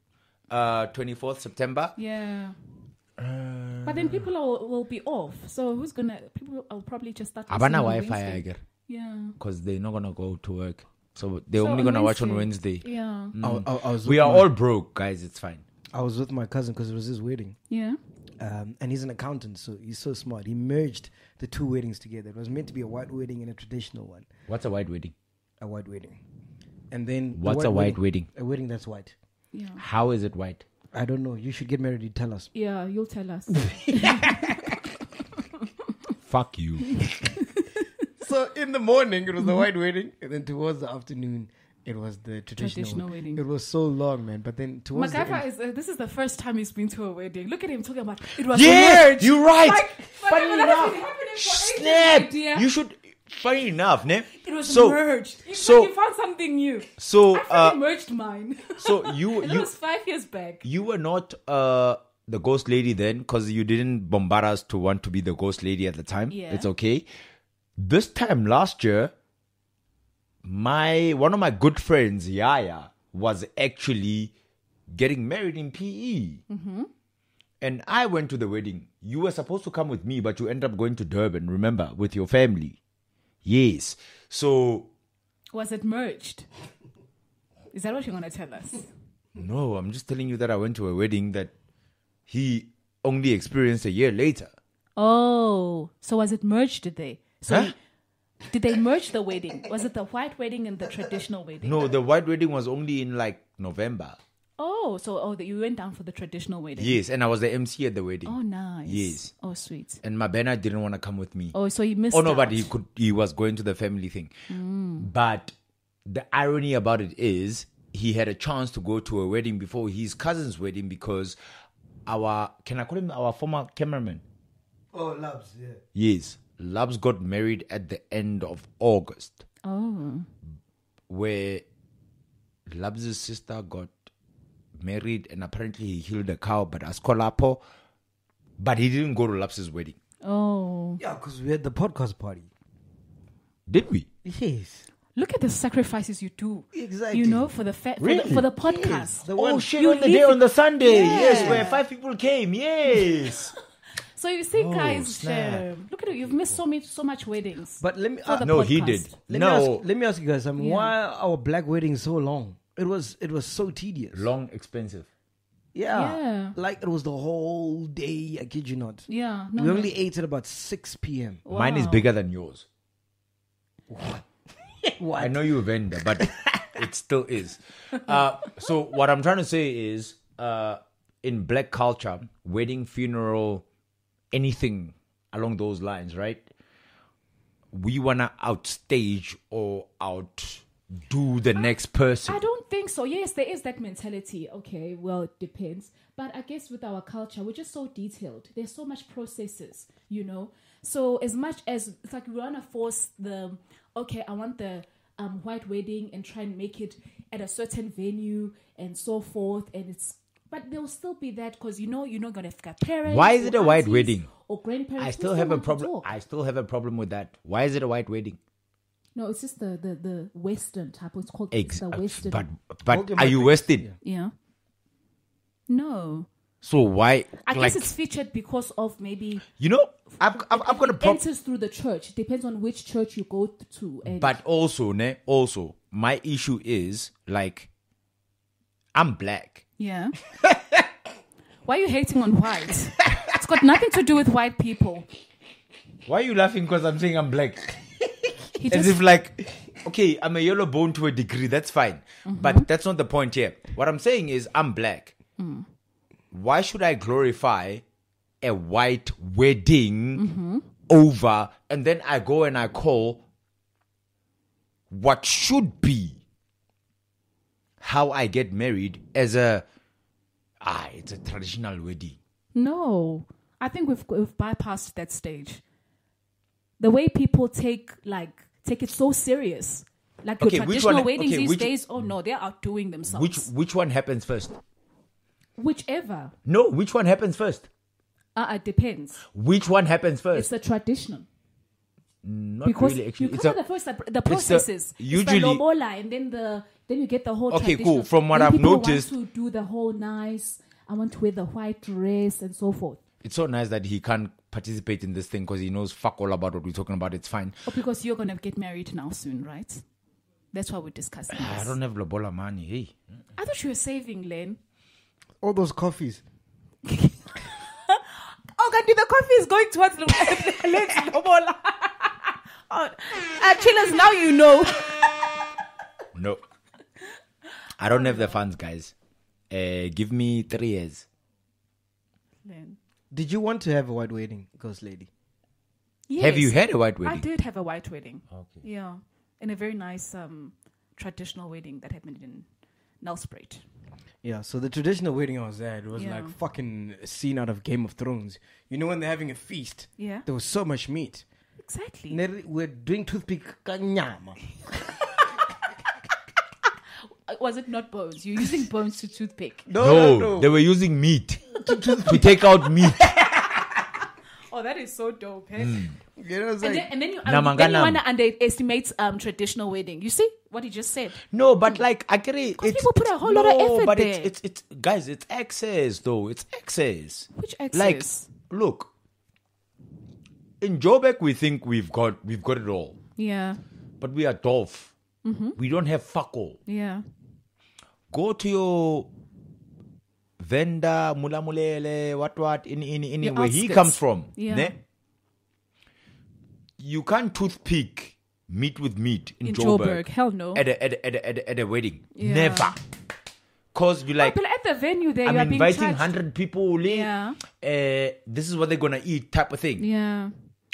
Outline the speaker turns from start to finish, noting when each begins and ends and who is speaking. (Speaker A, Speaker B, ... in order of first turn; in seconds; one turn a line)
Speaker A: 0.5-1.9
Speaker B: 2.0-2.5
Speaker A: 3.2-4.3
Speaker B: 3.8-9.4
Speaker A: 7.5-8.6
Speaker A: 9.4-15.7
Speaker B: 11.6-13.3
Speaker C: 13.4-14.5
Speaker C: 15.9-17.6
Speaker B: 17.7-18.0
Speaker C: 18.4-24.3
Speaker A: 24.5-25.1
Speaker C: 25.6-26.2
Speaker C: 26.9-29.1
Speaker A: 27.4-28.3
Speaker B: 29.5-29.8
Speaker A: 29.8-30.6
Speaker C: 30.9-32.5
Speaker B: 32.5-34.6
Speaker C: 33.7-34.5
Speaker A: 36.2-37.1
Speaker B: 37.5-37.9
Speaker C: 38.2-45.5
Speaker B: 42.6-43.4
Speaker B: 44.9-52.7
Speaker A: 48.5-55.9
Speaker B: 54.4-60.6
Speaker A: 57.0-57.8
Speaker A: 58.8-59.7
Speaker A: 60.6-67.1
Speaker B: 66.3-66.7
Speaker A: 67.8-69.1
Speaker A: 70.4-74.3
Speaker A: 74.9-76.4
Speaker B: 76.5-76.9
Speaker A: 77.6-82.8
Speaker A: 83.5-84.9
Speaker B: 85.5-86.5
Speaker B: 87.7-88.9
Speaker A: 89.4-91.5
Speaker A: 92.3-94.5
Speaker B: 95.0-97.8
Speaker A: 97.5-97.7
Speaker B: 98.5-101.9
Speaker A: 101.6-104.2
Speaker B: 104.6-107.0
Speaker A: 106.8-109.3
Speaker B: 108.3-110.0
Speaker A: 110.0-111.5
Speaker B: 111.5-112.7
Speaker A: 112.1-114.3
Speaker B: 114.5-115.1
Speaker A: 115.0-115.5
Speaker A: 116.1-121.4
Speaker A: 122.1-124.2
Speaker C: 124.9-125.8
Speaker A: 126.0-129.4
Speaker B: 129.6-130.3
Speaker A: 131.1-131.6
Speaker A: 132.7-133.9
Speaker A: 134.8-137.6
Speaker A: 138.6-140.0
Speaker B: 140.2-141.0
Speaker C: 141.0-142.5
Speaker A: 143.7-144.1
Speaker C: 144.2-144.8
Speaker B: 145.2-151.8
Speaker C: 146.7-147.5
Speaker A: 148.0-148.5
Speaker C: 148.6-149.7
Speaker A: 149.3-153.5
Speaker C: 150.9-151.7
Speaker B: 154.1-159.1
Speaker A: 154.5-156.6
Speaker C: 157.8-158.5
Speaker A: 158.4-159.8
Speaker C: 159.3-164.3
Speaker B: 160.6-160.9
Speaker A: 164.1-165.1
Speaker C: 165.7-171.4
Speaker B: 165.9-166.6
Speaker B: 169.1-169.9
Speaker B: 171.5-172.1
Speaker A: 171.5-172.7
Speaker C: 173.9-174.2
Speaker C: 174.8-175.6
Speaker A: 175.2-183.7
Speaker C: 176.2-176.5
Speaker A: 184.3-186.5
Speaker A: 187.7-192.4
Speaker B: 192.2-216.1
Speaker A: 213.1-214.3
Speaker A: 215.0-218.4
Speaker B: 219.2-222.5
Speaker A: 221.5-223.9
Speaker C: 222.9-223.9
Speaker B: 224.0-224.3
Speaker B: 225.7-226.3
Speaker A: 226.6-227.9
Speaker B: 227.4-229.4
Speaker A: 229.6-231.2
Speaker B: 230.2-234.4
Speaker A: 234.1-237.7
Speaker A: 238.9-239.6
Speaker B: 239.8-240.2
Speaker B: 241.7-245.1
Speaker A: 246.1-247.8
Speaker B: 248.6-249.0
Speaker A: 248.7-255.1
Speaker B: 252.3-252.7
Speaker B: 255.4-255.7
Speaker A: 256.3-257.8
Speaker A: 258.4-260.3
Speaker B: 260.1-260.7
Speaker A: 260.9-263.2
Speaker A: 264.9-266.2
Speaker A: 267.8-269.6
Speaker A: 270.6-272.2
Speaker B: 272.5-275.6
Speaker B: 276.8-283.5
Speaker A: 280.4-281.8
Speaker A: 283.1-284.6
Speaker B: 285.6-286.3
Speaker A: 286.5-287.7
Speaker B: 288.4-289.2
Speaker A: 289.3-290.5
Speaker B: 290.3-291.3
Speaker A: 292.2-293.6
Speaker B: 292.6-303.0
Speaker A: 294.2-295.6
Speaker A: 297.5-299.1
Speaker A: 303.2-307.6
Speaker B: 307.7-309.8
Speaker B: 310.5-311.7
Speaker A: 311.3-313.0
Speaker B: 313.4-314.6
Speaker C: 315.4-316.2
Speaker B: 316.9-325.2
Speaker A: 326.1-326.4
Speaker A: 327.8-328.9
Speaker B: 327.9-328.4
Speaker A: 329.5-331.1
Speaker B: 332.4-332.8
Speaker C: 333.1-335.1
Speaker B: 336.1-342.5
Speaker A: 336.2-337.3
Speaker A: 338.3-338.6
Speaker B: 343.0-343.6
Speaker C: 344.2-351.2
Speaker B: 345.9-346.4
Speaker B: 350.0-350.3
Speaker B: 351.6-352.2
Speaker C: 352.1-354.4
Speaker B: 357.3-359.7
Speaker C: 359.7-360.5
Speaker A: 359.8-363.2
Speaker C: 361.6-362.4
Speaker B: 364.5-365.8
Speaker A: 365.6-366.0
Speaker C: 366.2-366.9
Speaker B: 366.6-371.8
Speaker A: 367.2-368.0
Speaker A: 371.3-378.9
Speaker B: 372.6-374.3
Speaker B: 377.4-378.3
Speaker A: 380.6-383.0
Speaker B: 383.2-383.6
Speaker A: 384.0-384.9
Speaker B: 385.2-385.6
Speaker A: 385.6-386.6
Speaker B: 386.7-387.0
Speaker A: 388.1-389.1
Speaker A: 390.4-394.8
Speaker B: 393.2-394.7
Speaker A: 396.8-402.8
Speaker B: 399.4-400.6
Speaker B: 402.2-402.8
Speaker A: 403.7-404.4
Speaker B: 404.2-406.1
Speaker A: 405.2-409.9
Speaker B: 406.8-407.4
Speaker B: 409.8-410.3